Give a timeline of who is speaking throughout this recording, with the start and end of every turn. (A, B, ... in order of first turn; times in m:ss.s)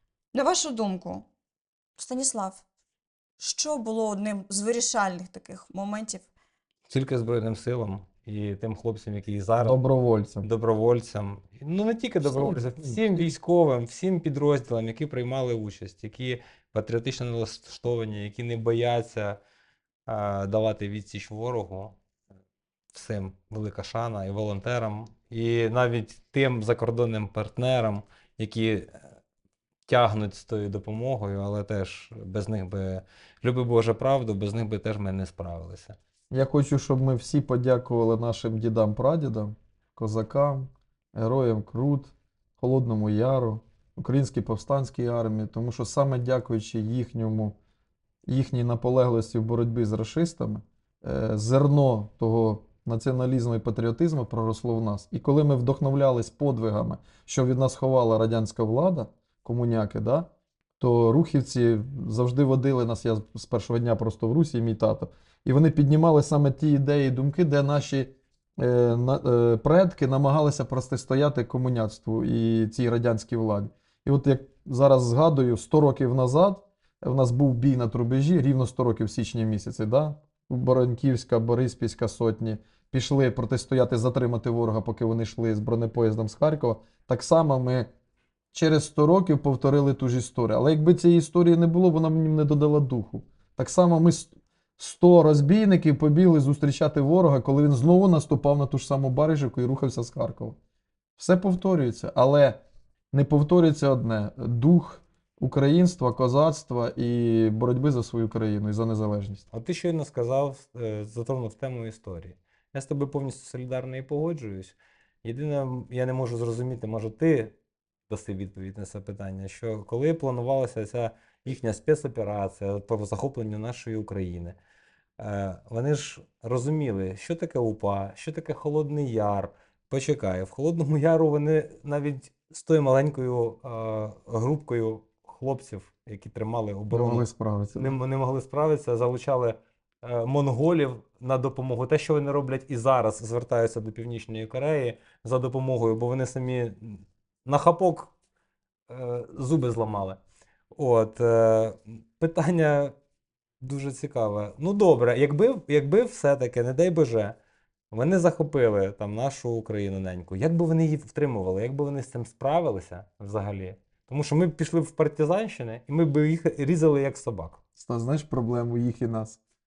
0:00.3-0:01.2 A
0:02.0-0:02.6 A
0:03.4-0:06.3 A
0:06.9-0:09.8 B
0:09.6-0:10.4 C
0:10.4-0:19.4 B
0:12.2-0:13.0 C
0:20.1-0:22.0 B
0:22.9-0:29.0 B
0:29.9-0:36.0 B
0:36.3-0:47.6 C
0:48.2-1:00.3 C
1:00.8-1:27.9 C
1:28.5-1:40.6 C
1:41.2-1:42.6 C
1:43.1-1:49.4 C
1:49.5-1:57.5 B
1:58.1-2:04.6 B
2:05.2-2:17.2 B
2:16.9-2:17.9 C
2:17.8-2:28.1 B
2:28.9-2:30.2 B
2:30.7-2:32.9 B
2:33.6-2:37.4 B
2:37.9-2:47.6 B
2:47.8-2:49.4 C